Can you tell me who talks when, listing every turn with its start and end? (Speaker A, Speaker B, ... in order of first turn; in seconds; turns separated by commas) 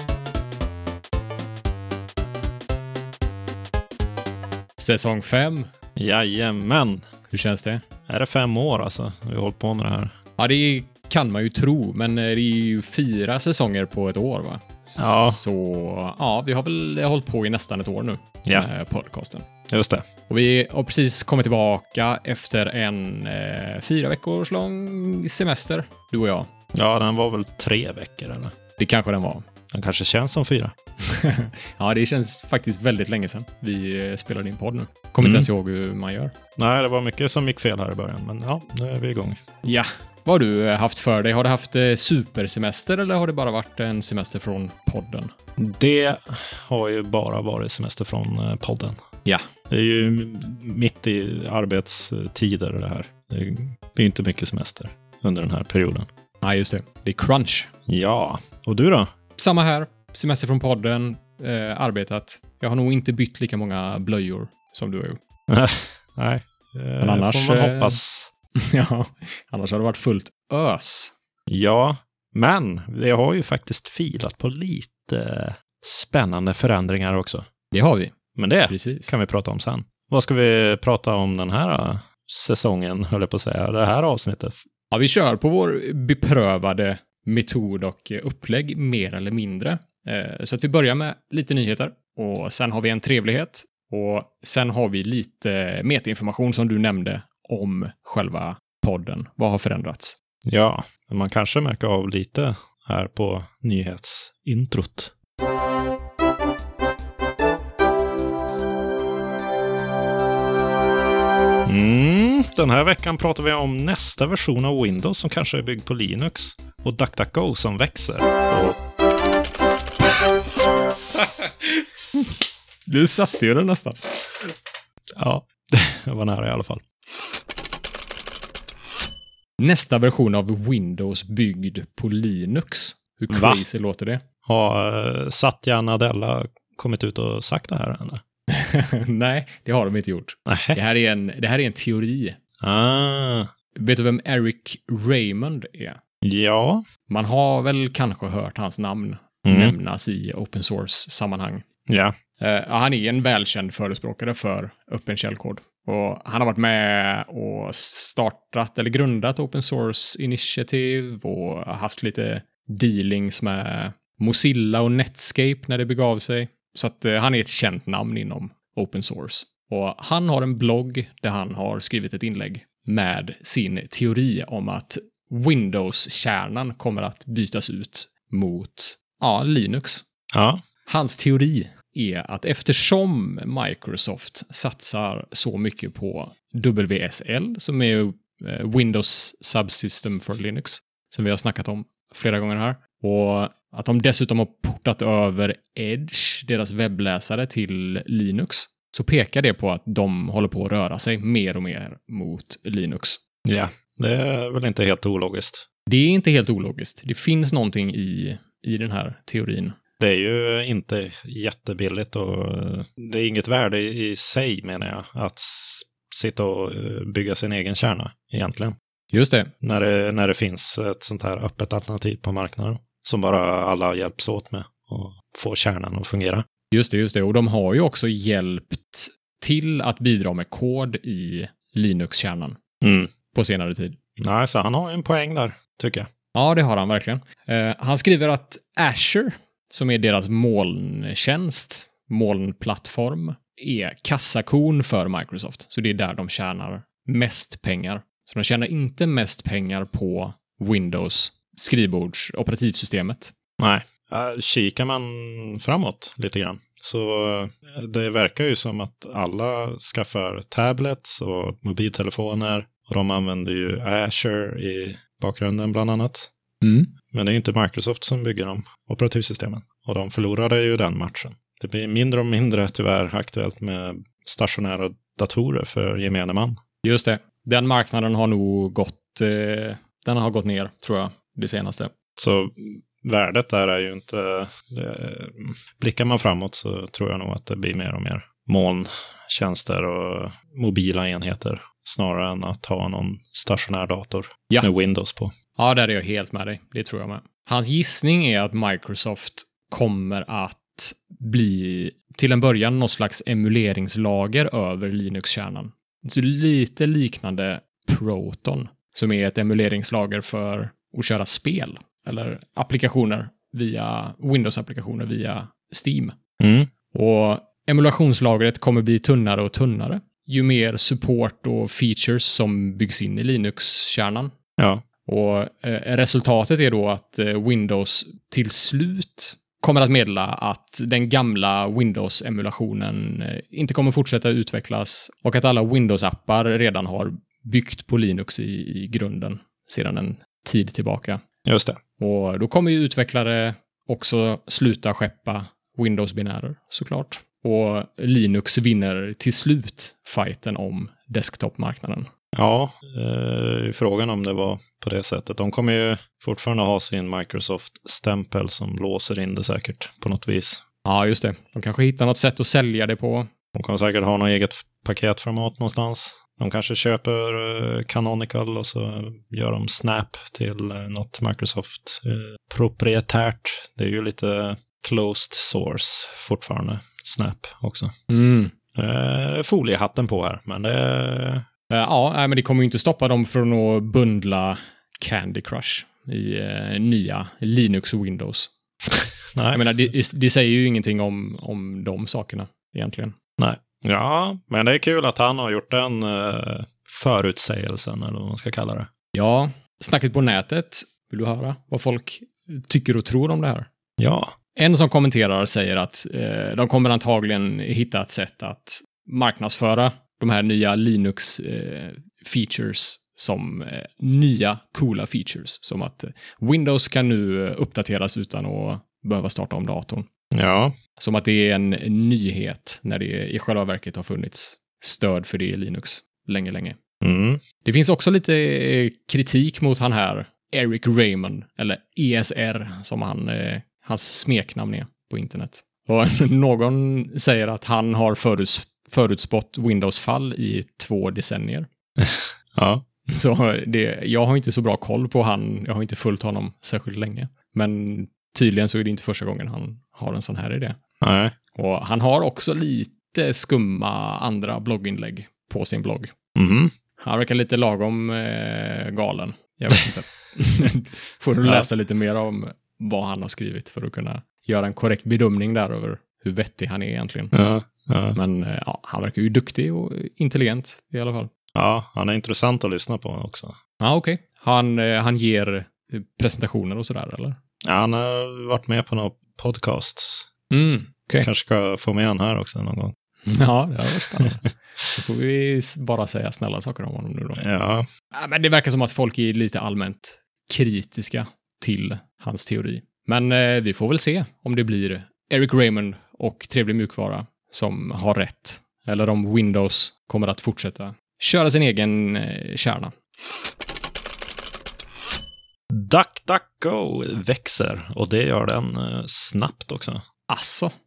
Speaker A: 4.8-5.7, Speaker B: 6.0-7.0, Speaker A: 7.3-7.8, Speaker B: 8.1-10.2, Speaker A: 10.4-19.5, Speaker B: 15.0-15.4, Speaker B: 19.7-20.1, Speaker A: 20.3-26.5, Speaker B: 26.7-28.5, Speaker A: 28.8-29.4, Speaker B: 29.7-30.7, Speaker A: 31.0-36.3, Speaker B: 35.2-35.5, Speaker B: 36.6-39.4, Speaker A: 39.6-45.3, Speaker B: 45.6-49.0, Speaker B: 49.7-56.1, Speaker A: 56.4-57.7, Speaker B: 57.9-59.1, Speaker A: 59.4-65.2, Speaker B: 65.5-68.3, Speaker A: 67.0-68.0, Speaker A: 68.6-71.1, Speaker B: 71.5-77.5, Speaker A: 77.7-78.2, Speaker B: 78.4-84.6, Speaker A: 78.7-79.1, Speaker A: 84.9-100.2, Speaker B: 100.5-105.1, Speaker B: 111.7-118.8, Speaker A: 122.9-124.1, Speaker B: 125.2-126.8, Speaker A: 129.6-134.2, Speaker B: 133.3-133.6, Speaker B: 134.4-138.2, Speaker A: 138.5-142.4, Speaker B: 140.5-140.8, Speaker B: 142.6-143.5, Speaker A: 143.8-146.0, Speaker B: 146.2-146.8, Speaker A: 147.1-151.7, Speaker B: 149.4-149.8, Speaker B: 151.9-152.2, Speaker A: 152.4-180.1, Speaker B: 180.3-180.6, Speaker A: 180.9-203.2, Speaker B: 203.4-205.7, Speaker A: 205.9-209.8, Speaker B: 210.0-218.8, Speaker A: 219.1-219.5, Speaker B: 219.6-226.4, Speaker A: 226.7-232.6, Speaker B: 232.8-233.1, Speaker A: 233.3-234.0, Speaker B: 234.2-236.1, Speaker A: 236.3-253.3, Speaker B: 253.6-266.3, Speaker A: 266.6-266.9, Speaker B: 267.1-276.6, Speaker A: 276.8-281.9, Speaker B: 282.2-295.3, Speaker A: 295.6-316.2, Speaker B: 316.4-316.7, Speaker A: 316.9-324.3, Speaker B: 324.6-324.9, Speaker A: 325.1-341.2, Speaker B: 341.4-341.8, Speaker A: 342.0-352.1, Speaker B: 352.3-360.6, Speaker A: 360.9-363.3, Speaker B: 363.6-377.9, Speaker A: 378.1-378.5, Speaker B: 378.8-381.4, Speaker A: 381.7-388.5, Speaker B: 389.3-389.6, Speaker A: 389.5-393.2, Speaker B: 393.4-398.9, Speaker A: 399.1-403.7, Speaker B: 404.0-404.4, Speaker A: 404.5-420.1, Speaker B: 420.3-420.8, Speaker A: 421.0-426.8, Speaker B: 427.0-427.4, Speaker A: 427.6-441.7, Speaker B: 442.0-442.9, Speaker A: 443.1-450.8, Speaker B: 451.0-451.3, Speaker A: 451.5-456.1, Speaker B: 456.4-456.7, Speaker A: 457.0-467.3, Speaker B: 467.3-468.2, Speaker A: 468.1-471.3, Speaker B: 471.6-473.6, Speaker A: 473.8-477.4, Speaker B: 477.6-480.3, Speaker A: 480.5-481.3, Speaker B: 481.2-482.9, Speaker A: 483.3-484.4, Speaker B: 483.9-484.4, Speaker A: 484.9-487.4, Speaker B: 487.4-487.9, Speaker A: 488.1-502.9, Speaker B: 505.7-510.0, Speaker A: 510.3-510.7